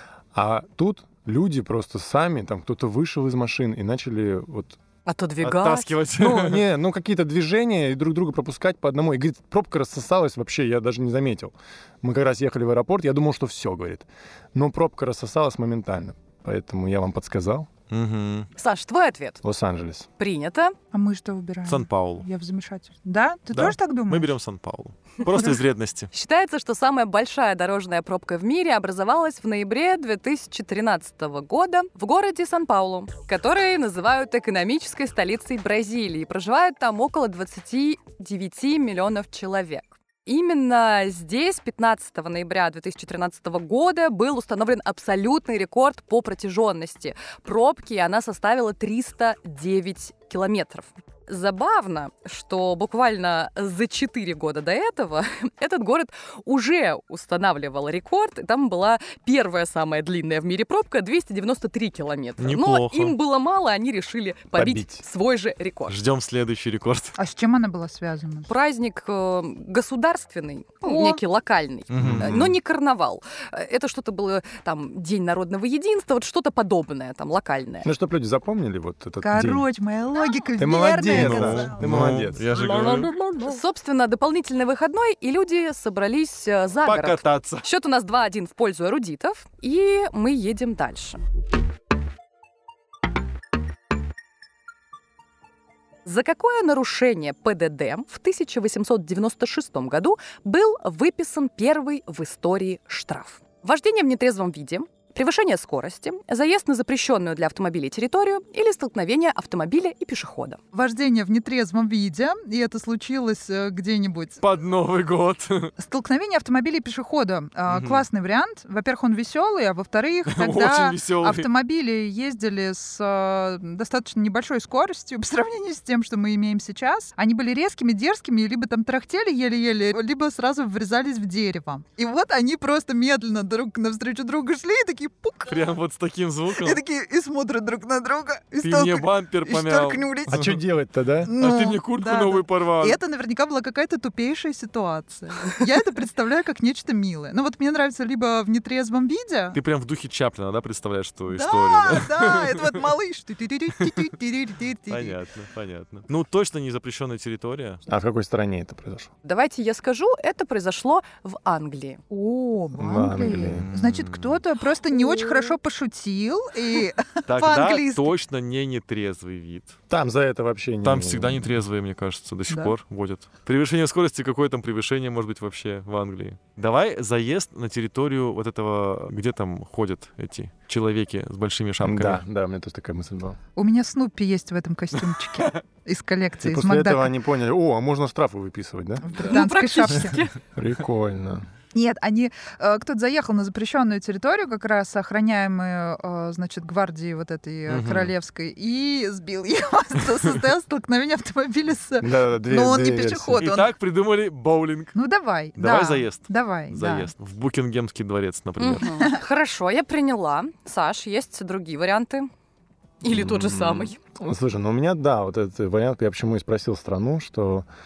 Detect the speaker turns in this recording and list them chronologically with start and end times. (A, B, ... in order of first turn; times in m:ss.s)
0:00.3-0:04.8 A
0:05.0-0:05.9 B
0:05.4-0:06.6 C
0:06.2-0:17.7 A
0:17.9-0:18.5 C
0:18.6-0:19.4 B
0:19.4-0:20.1 A
0:20.2-0:20.7 B
0:20.9-0:24.3 D
0:21.6-0:22.2 C
0:23.5-0:26.1 C
0:26.1-1:06.0 B
1:02.4-1:03.1 C
1:04.5-1:05.0 A
1:05.9-1:07.1 C
1:07.2-1:08.5 D
1:08.5-1:17.9 B
1:10.8-1:11.2 D
1:11.9-1:12.5 C
1:11.9-1:12.4 A
1:17.8-1:19.6 A
1:19.2-1:21.8 D
1:20.6-1:22.6 A
1:21.0-1:23.2 C
1:23.3-1:31.2 B
1:26.8-1:27.6 C
1:36.0-1:50.6 B
1:50.7-1:54.4 D
1:54.4-1:55.7 C
1:55.8-2:15.6 D
1:57.7-1:58.0 C
2:00.3-2:01.5 C
2:15.5-2:16.8 C
2:16.6-2:20.5 D
2:18.6-2:20.6 C
2:20.3-2:21.3 A
2:21.2-2:29.6 D
2:21.3-2:23.0 C
2:29.5-2:32.9 C
2:31.3-2:35.2 D
2:34.9-2:37.8 C
2:37.9-2:39.1 A
2:39.2-2:42.0 B
2:42.1-2:48.1 D
2:42.8-2:43.7 A
2:43.4-2:44.4 C
2:47.3-2:49.8 C
2:49.9-2:51.5 A
2:50.8-3:02.2 C
3:01.8-3:03.4 A
3:03.6-3:07.1 D
3:06.4-3:09.1 A
3:09.0-3:10.2 D
3:09.2-3:10.3 B
3:10.5-3:11.4 A
3:11.7-3:23.7 D
3:17.7-3:18.1 C
3:22.0-3:23.4 A
3:23.4-3:25.0 C
3:24.9-3:27.1 D
3:25.6-3:28.9 C
3:28.6-3:32.3 B
3:28.9-3:29.2 D
3:33.0-3:34.0 B
3:33.1-3:37.6 A